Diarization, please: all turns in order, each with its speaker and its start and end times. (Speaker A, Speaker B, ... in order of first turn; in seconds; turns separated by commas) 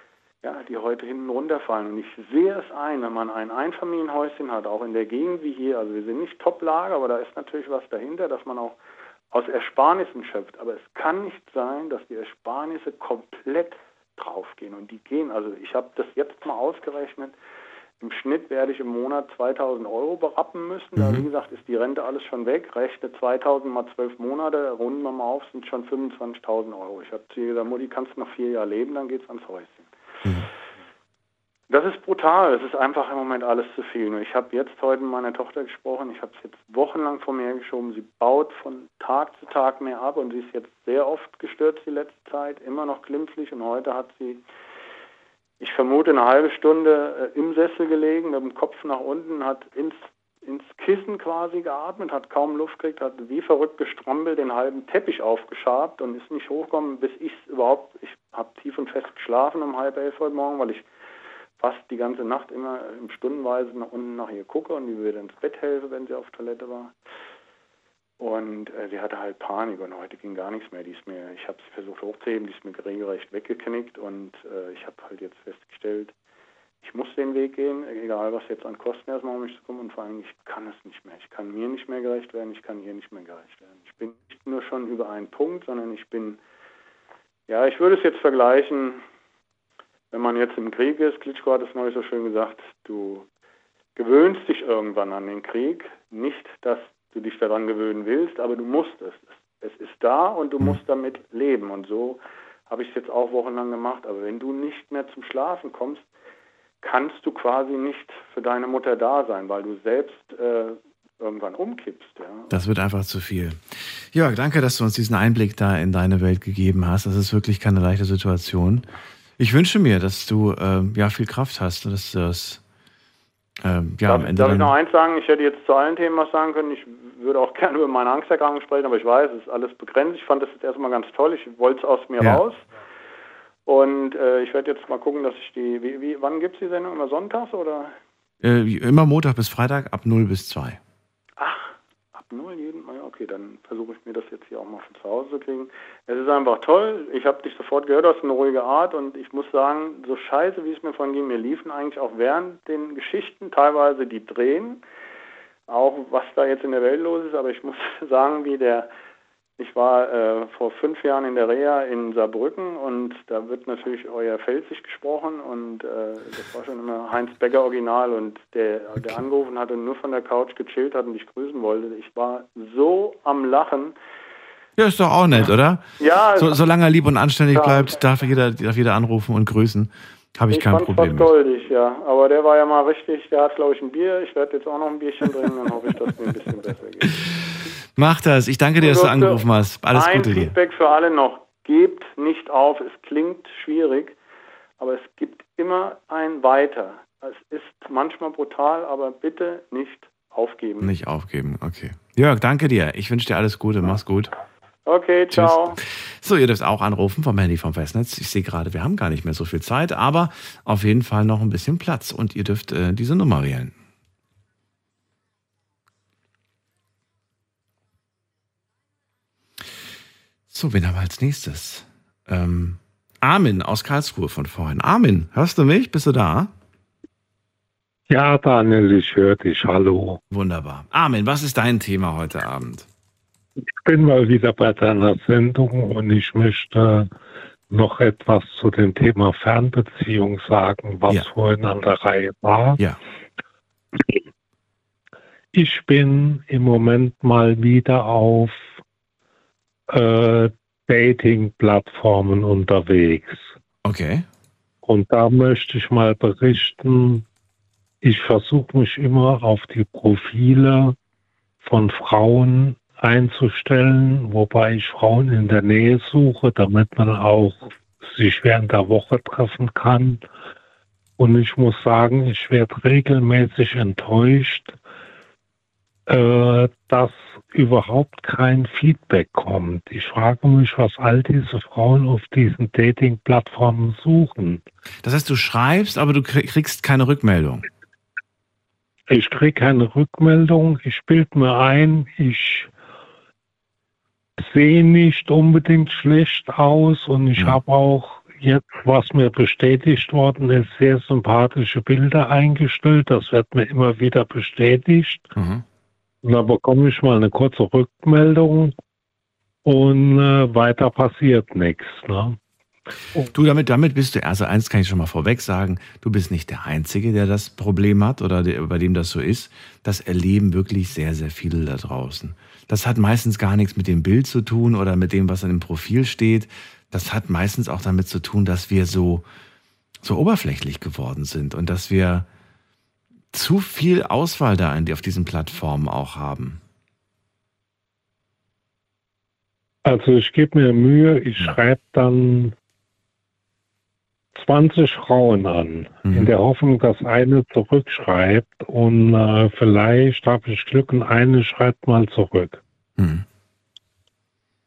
Speaker A: 0.4-8.8, Speaker A: 9.3-17.4, Speaker A: 18.0-29.9, Speaker B: 21.0-21.3, Speaker A: 31.7-44.4, Speaker A: 45.6-60.9, Speaker A: 61.6-66.9, Speaker A: 68.2-76.1, Speaker A: 76.8-86.4, Speaker A: 87.5-89.0, Speaker A: 90.1-93.3, Speaker A: 94.0-106.1, Speaker A: 106.8-112.5, Speaker B: 112.5-118.9, Speaker B: 119.4-122.6, Speaker B: 123.6-124.7, Speaker A: 124.1-132.6, Speaker A: 133.7-137.9, Speaker B: 138.4-140.8, Speaker A: 141.4-154.8, Speaker A: 155.7-158.9, Speaker A: 159.6-173.9, Speaker B: 174.8-181.3, Speaker A: 176.0-176.6, Speaker A: 177.5-178.0, Speaker A: 180.5-187.2, Speaker B: 187.9-190.5, Speaker A: 188.8-194.2, Speaker A: 194.8-200.9, Speaker B: 200.8-204.3, Speaker A: 204.9-205.8, Speaker B: 205.3-213.7, Speaker B: 220.5-226.5, Speaker C: 228.1-230.2, Speaker B: 230.3-232.9, Speaker C: 233.6-237.1, Speaker C: 237.7-242.8, Speaker C: 245.5-248.7, Speaker C: 249.9-253.5, Speaker B: 253.8-254.3, Speaker C: 254.8-257.2, Speaker C: 258.0-261.0, Speaker C: 261.6-270.2, Speaker C: 271.2-274.8, Speaker C: 276.1-284.6, Speaker B: 285.0-287.7, Speaker C: 289.1-292.7, Speaker C: 294.4-305.3, Speaker B: 297.4-297.6, Speaker B: 305.4-305.6, Speaker C: 306.2-308.7, Speaker C: 309.6-312.4, Speaker B: 313.2-329.2, Speaker B: 330.0-332.3, Speaker B: 333.3-336.6, Speaker C: 339.9-342.5, Speaker C: 344.4-352.6, Speaker B: 346.1-346.3, Speaker B: 353.0-353.2